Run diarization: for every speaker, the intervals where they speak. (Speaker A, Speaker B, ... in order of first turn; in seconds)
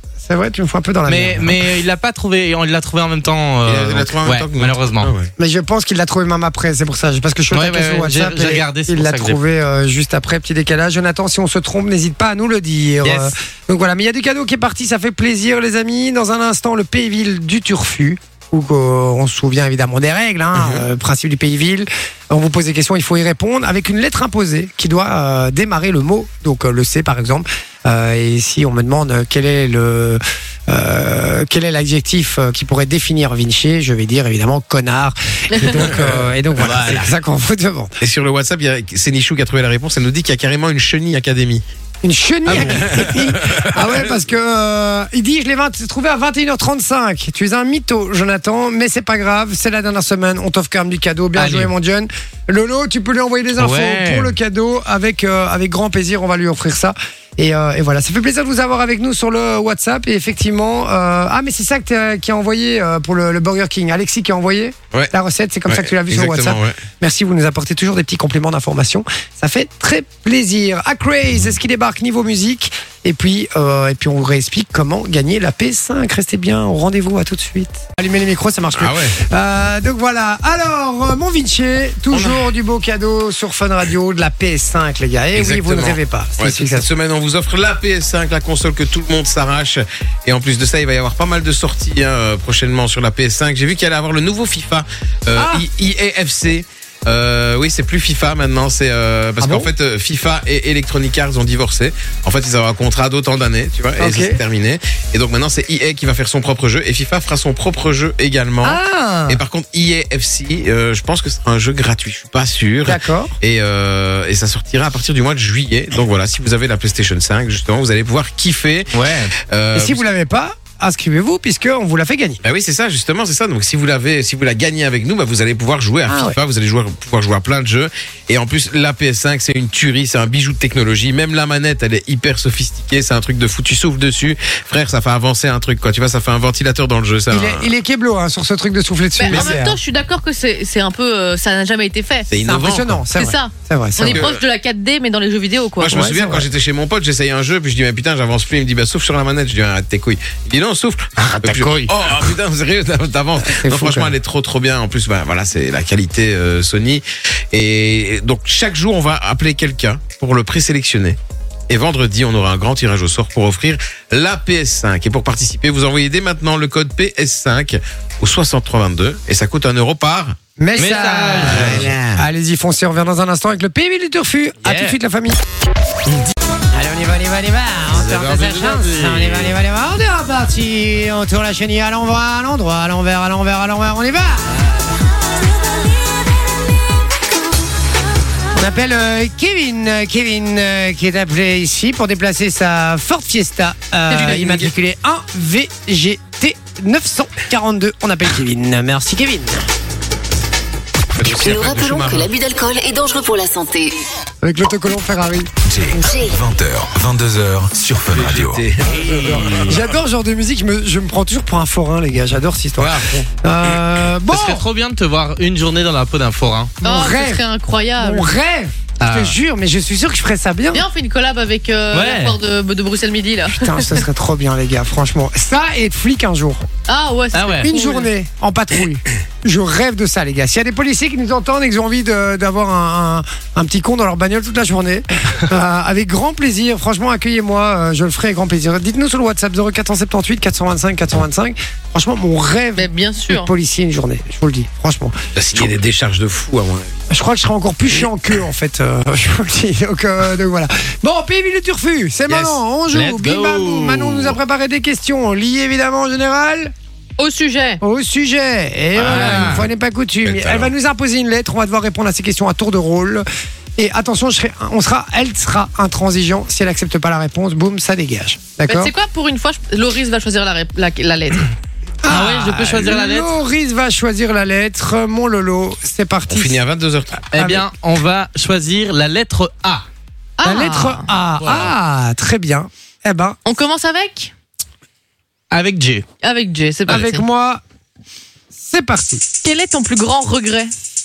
Speaker A: 0.2-1.6, 5.4-38.0, 42.0-86.9, 99.4-99.7, 104.0-104.4, 108.6-109.4, 112.8-113.3, 119.7-122.4, 126.1-126.4, 137.3-139.8, 142.4-144.2, 145.9-146.5, 153.4-154.2, 170.6-175.4, 176.7-184.6, 188.5-199.6, 204.4-205.5, 209.3-214.7, 216.8-217.4, 218.0-220.9, 223.5-226.7, 227.6-245.7, 247.1-256.7, 257.8-268.9, 272.0-276.6, 277.3-277.7, 280.4-283.4, 286.9-287.6, 288.5-289.2
Speaker B: 1.1-5.1, 7.5-9.4, 13.0-13.3, 36.6-37.1, 42.5-43.1, 51.4-51.7, 53.6-54.3, 118.9-119.3, 151.2-151.9, 170.7-171.9, 174.6-175.0, 177.9-179.5, 208.9-209.8, 214.3-216.8, 219.0-219.4, 221.9-222.4, 227.3-227.7, 252.3-254.3, 258.9-259.6, 272.1-273.3, 277.3-279.9, 281.4-281.7, 285.5-286.1
Speaker C: 3.6-5.3, 20.6-20.9, 38.0-41.6, 42.5-43.7, 65.7-66.8, 78.7-79.2, 82.1-82.5, 85.3-120.0, 122.4-137.7, 139.3-139.6, 142.3-143.0, 144.0-144.4, 145.8-161.2, 161.7-170.4, 171.5-172.1, 194.4-194.7, 201.1-202.3, 208.1-209.8, 212.8-213.3, 245.3-247.0, 259.1-259.6, 260.2-260.7, 276.3-277.3
Speaker D: 35.5-35.9, 139.2-142.3, 143.2-146.0, 216.8-218.3, 220.7-224.0, 226.9-228.1, 242.8-243.5, 257.2-257.8, 268.7-271.5, 280.4-281.1, 283.4-284.3, 286.2-287.2, 289.4-290.7
Speaker E: 201.4-204.0, 205.9-206.4
Speaker F: 205.7-208.7